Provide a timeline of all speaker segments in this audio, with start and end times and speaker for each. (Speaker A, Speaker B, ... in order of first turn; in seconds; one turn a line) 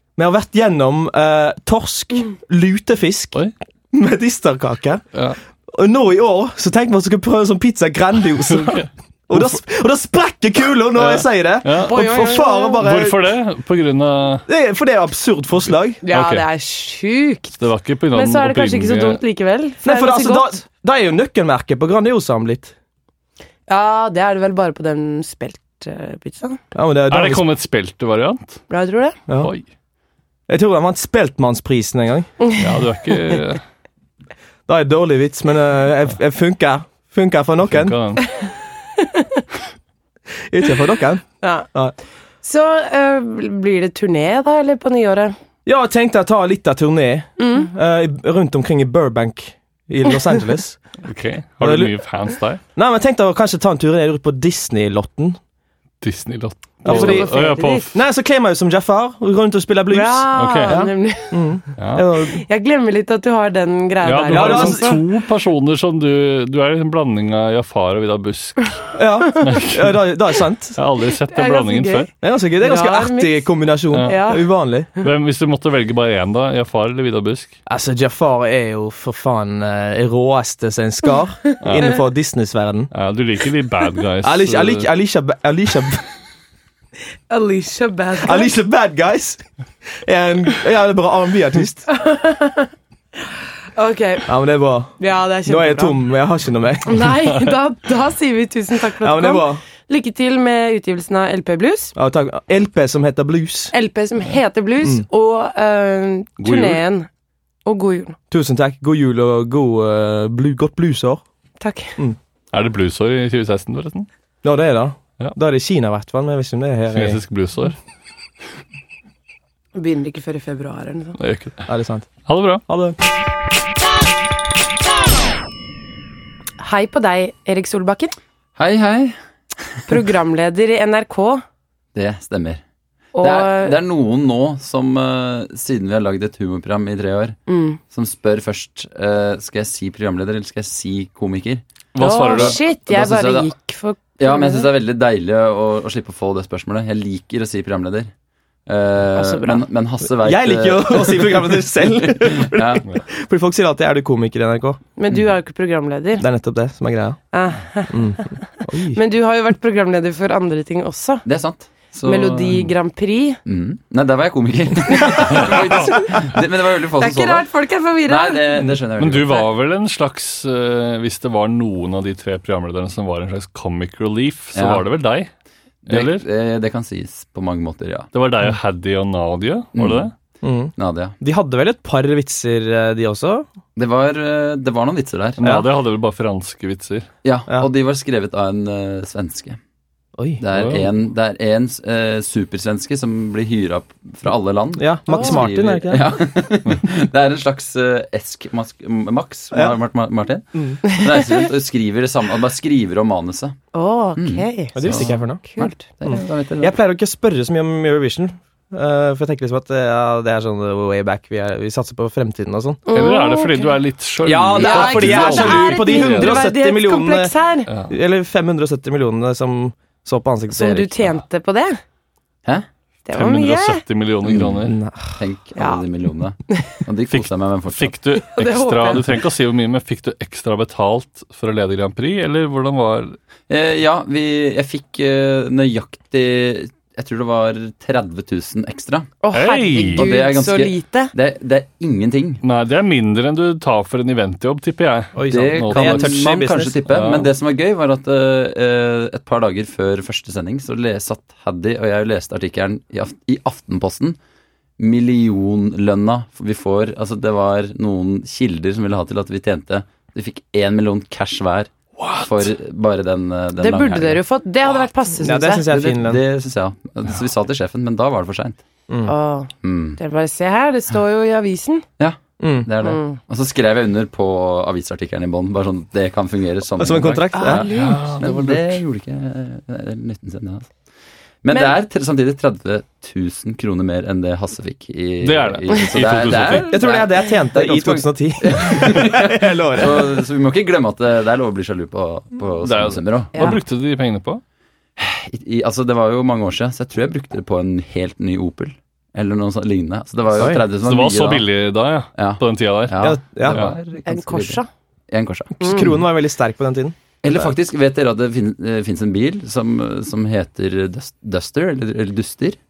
Speaker A: 0.2-3.4
Speaker A: 3.9-5.0
Speaker A: 5.7-13.2
Speaker B: 8.5-9.6
Speaker B: 10.9-12.0
Speaker C: 11.8-12.8
Speaker B: 12.8-14.4
Speaker A: 14.5-16.0
Speaker C: 16.0-20.5
Speaker B: 16.1-16.4
Speaker B: 17.6-19.2
Speaker A: 19.8-22.7
Speaker C: 23.7-26.6
Speaker A: 26.7-27.4
Speaker B: 27.1-28.6
Speaker C: 28.7-29.2
Speaker B: 29.4-29.6
Speaker A: 30.5-32.3
Speaker B: 32.6-33.6
Speaker A: 34.7-38.0
Speaker B: 37.7-38.3
Speaker C: 39.0-39.4
Speaker A: 40.5-41.9
Speaker C: 41.4-41.7
Speaker C: 42.4-45.3
Speaker A: 45.6-50.8
Speaker C: 47.4-47.7
Speaker B: 51.0-52.6
Speaker A: 51.6-51.9
Speaker A: 52.8-55.4
Speaker B: 56.0-58.0
Speaker A: 56.8-57.3
Speaker C: 56.8-57.9
Speaker A: 57.9-62.4
Speaker C: 59.9-61.5
Speaker B: 60.3-60.8
Speaker B: 61.8-62.0
Speaker C: 62.3-65.0
Speaker B: 64.0-68.8
Speaker A: 64.3-65.0
Speaker A: 68.9-70.8
Speaker B: 69.4-70.0
Speaker B: 70.7-72.1
Speaker C: 71.3-72.1
Speaker A: 72.2-74.9
Speaker C: 72.6-74.5
Speaker B: 75.0-77.5
Speaker A: 77.7-82.9
Speaker B: 81.6-82.0
Speaker B: 82.9-84.9
Speaker A: 84.2-86.0
Speaker C: 87.3-88.5
Speaker A: 88.2-91.9
Speaker C: 91.9-92.7
Speaker C: 93.8-94.3
Speaker A: 94.2-97.1
Speaker C: 95.0-96.0
Speaker C: 96.9-101.9
Speaker A: 99.0-99.6
Speaker A: 102.0-103.7
Speaker C: 103.7-107.1
Speaker B: 106.4-106.8
Speaker C: 107.6-108.2
Speaker A: 108.3-111.2
Speaker C: 111.6-112.0
Speaker B: 112.5-114.1
Speaker A: 114.4-117.2
Speaker B: 116.9-117.8
Speaker C: 119.8-121.2
Speaker B: 121.2-121.7
Speaker A: 121.7-122.1
Speaker B: 122.2-122.6
Speaker A: 122.7-123.0
Speaker C: 126.6-128.2
Speaker D: 128.6-129.1
Speaker C: 129.9-131.4
Speaker D: 131.9-132.6
Speaker C: 133.2-133.8
Speaker D: 133.2-137.4
Speaker C: 137.5-137.8
Speaker D: 137.9-141.6
Speaker B: 141.9-142.6
Speaker C: 142.0-144.7
Speaker D: 142.3-143.5
Speaker D: 144.2-148.1
Speaker D: 148.7-152.8
Speaker C: 149.2-149.6
Speaker A: 150.1-154.8
Speaker C: 155.0-156.2
Speaker A: 156.2-157.2
Speaker C: 157.3-161.2
Speaker A: 157.9-159.0
Speaker D: 161.2-162.7
Speaker C: 162.0-163.4
Speaker D: 163.4-167.5
Speaker B: 165.3-165.9
Speaker C: 167.0-168.4
Speaker D: 168.1-169.4
Speaker B: 169.0-175.3
Speaker D: 174.6-174.8
Speaker D: 175.9-178.1
Speaker B: 175.9-176.2
Speaker B: 178.1-180.1
Speaker D: 179.8-180.1
Speaker A: 180.4-183.5
Speaker D: 180.8-181.2
Speaker D: 183.8-185.4
Speaker B: 185.4-187.1
Speaker A: 185.4-185.7
Speaker D: 187.2-189.6
Speaker D: 190.4-203.6
Speaker B: 190.5-190.9
Speaker A: 194.8-196.1
Speaker A: 200.6-200.8
Speaker C: 200.8-201.3
Speaker C: 203.7-205.8
Speaker D: 204.2-206.7
Speaker A: 204.8-205.4
Speaker A: 206.1-212.8
Speaker C: 212.9-213.7
Speaker B: 212.9-216.5
Speaker A: 214.2-217.3
Speaker C: 214.6-217.7
Speaker B: 217.7-217.9
Speaker A: 217.9-221.1
Speaker C: 220.5-221.8
Speaker C: 223.1-223.8
Speaker B: 223.1-224.7
Speaker D: 224.2-227.9
Speaker A: 224.6-225.2
Speaker C: 225.6-225.8
Speaker C: 226.5-226.8
Speaker B: 227.1-233.2
Speaker C: 228.2-229.1
Speaker D: 233.5-239.1
Speaker C: 239.2-241.1
Speaker B: 239.3-240.1
Speaker D: 239.9-242.4
Speaker B: 242.4-246.2
Speaker A: 245.1-246.8
Speaker D: 245.3-254.2
Speaker B: 246.9-247.3
Speaker D: 254.8-264.2
Speaker B: 262.0-262.2
Speaker C: 263.6-265.7
Speaker A: 265.2-266.2
Speaker D: 265.7-268.6
Speaker C: 269.1-271.9
Speaker D: 269.6-270.0
Speaker D: 272.0-280.7
Speaker A: 272.4-272.7
Speaker C: 272.8-273.2
Speaker A: 276.8-277.7
Speaker C: 277.3-278.2
Speaker B: 277.7-278.8
Speaker D: 281.4-293.6
Speaker B: 285.2-286.8
Speaker A: 286.6-290.2
Speaker B: 292.6-294.4
Speaker D: 295.0-301.5
Speaker A: 300.4-300.6
Speaker B: 300.8-303.8
Speaker D: 302.1-305.9
Speaker A: 303.0-303.6
Speaker C: 304.1-304.7
Speaker A: 305.6-306.9
Speaker C: 305.6-305.9
Speaker D: 307.2-312.6